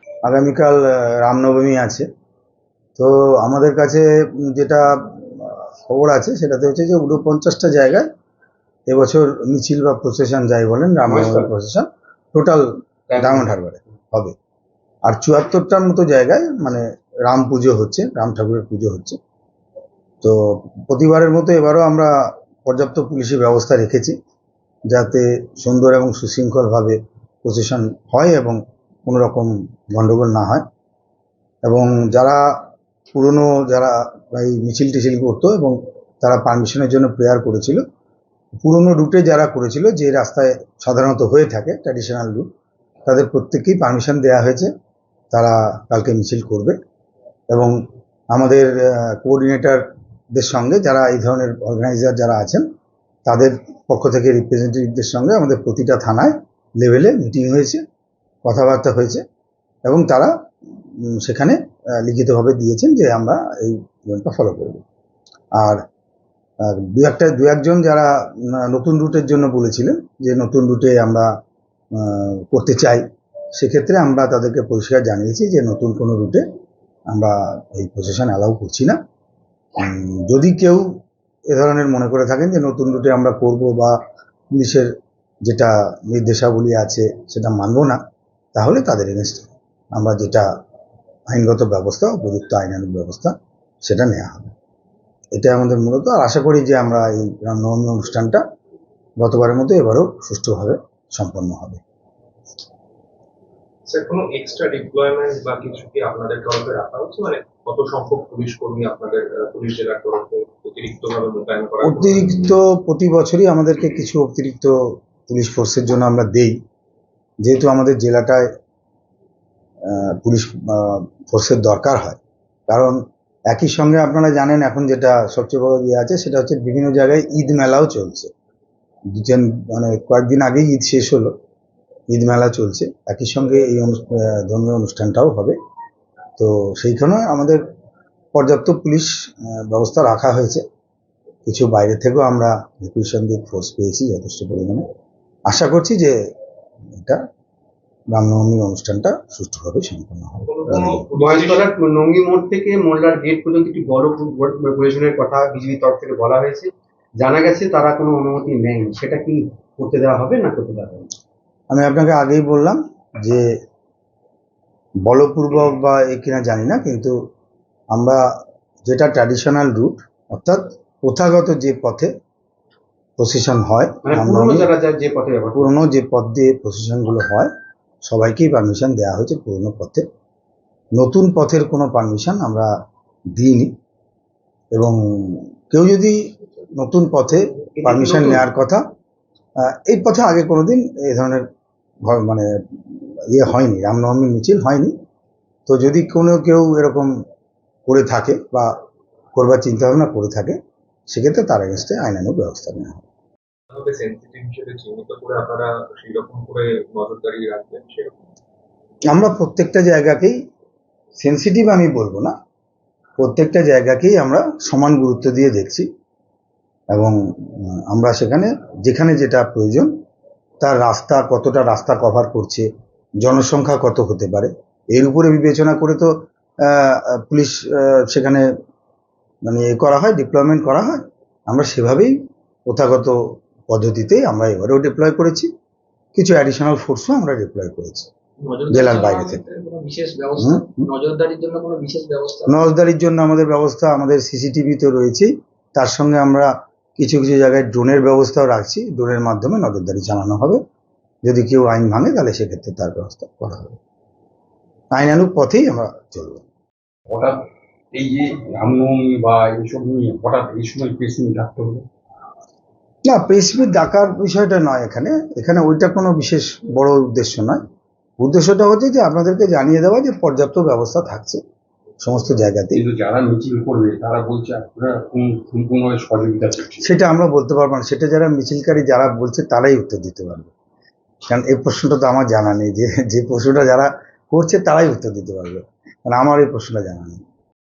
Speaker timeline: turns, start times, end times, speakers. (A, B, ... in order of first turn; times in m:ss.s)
0:00.2-0:02.0 A
0:03.0-0:08.1 A
0:08.9-0:12.6 A
0:11.1-0:11.5 B
0:13.1-0:13.5 B
0:13.2-0:14.3 A
0:15.1-0:19.2 A
0:20.2-0:22.1 A
0:22.6-0:24.2 A
0:24.9-0:30.6 A
0:31.6-0:32.4 A
0:33.1-0:37.8 A
0:38.6-0:42.5 A
0:43.1-0:44.7 A
0:45.3-0:46.8 A
0:48.3-0:49.8 A
0:50.3-0:52.6 A
0:53.3-0:57.8 A
0:58.4-0:59.2 A
0:59.8-1:00.3 A
1:01.0-1:04.8 A
1:05.6-1:05.8 A
1:06.6-1:11.3 A
1:11.9-1:13.0 A
1:13.6-1:16.4 A
1:17.1-1:19.0 A
1:19.8-1:20.8 A
1:21.5-1:24.0 A
1:24.5-1:24.9 A
1:25.4-1:28.0 A
1:28.5-1:30.4 A
1:31.3-1:34.5 A
1:35.4-1:38.4 A
1:39.2-1:41.8 A
1:43.9-1:52.6 C
1:51.8-1:54.8 A
1:55.3-1:56.6 A
1:57.4-1:58.5 A
1:59.8-2:03.0 A
2:03.5-2:08.3 A
2:09.1-2:11.3 A
2:12.1-2:15.6 A
2:16.4-2:17.6 A
2:18.3-2:20.6 A
2:21.5-2:24.8 A
2:25.5-2:26.1 A
2:26.9-2:27.2 A
2:28.1-2:31.0 A
2:30.4-2:31.7 C
2:31.2-2:41.1 B
2:41.7-2:43.4 A
2:45.0-2:47.1 A
2:47.9-2:48.2 A
2:48.8-2:52.1 A
2:53.2-2:54.7 A
2:54.0-2:55.7 B
2:55.6-2:57.5 A
2:58.0-3:00.0 A
3:01.0-3:02.7 A
3:03.4-3:03.7 A
3:04.7-3:06.2 A
3:06.8-3:08.8 A
3:07.8-3:08.4 B
3:09.6-3:11.4 A
3:12.0-3:14.9 A
3:15.7-3:17.1 A
3:17.9-3:18.7 A
3:19.3-3:20.6 A
3:21.1-3:23.0 A
3:23.7-3:28.2 C
3:29.1-3:30.4 A
3:31.2-3:32.3 A
3:33.2-3:35.9 A
3:36.9-3:39.9 A
3:40.6-3:42.7 A
3:43.2-3:46.1 A
3:46.6-3:48.4 A
3:49.5-3:52.2 A
3:52.7-3:55.5 A
3:56.2-3:58.1 A
3:58.5-4:02.5 D
3:58.7-3:59.4 A
4:00.4-4:00.9 A
4:02.5-4:10.6 A
4:11.2-4:13.8 A
4:14.9-4:16.4 A
4:17.1-4:17.4 E
4:17.9-4:21.9 E
4:23.0-4:27.6 A
4:28.2-4:31.4 A
4:32.0-4:32.8 A
4:32.7-4:36.9 E
4:36.8-4:40.5 A
4:41.3-4:47.2 A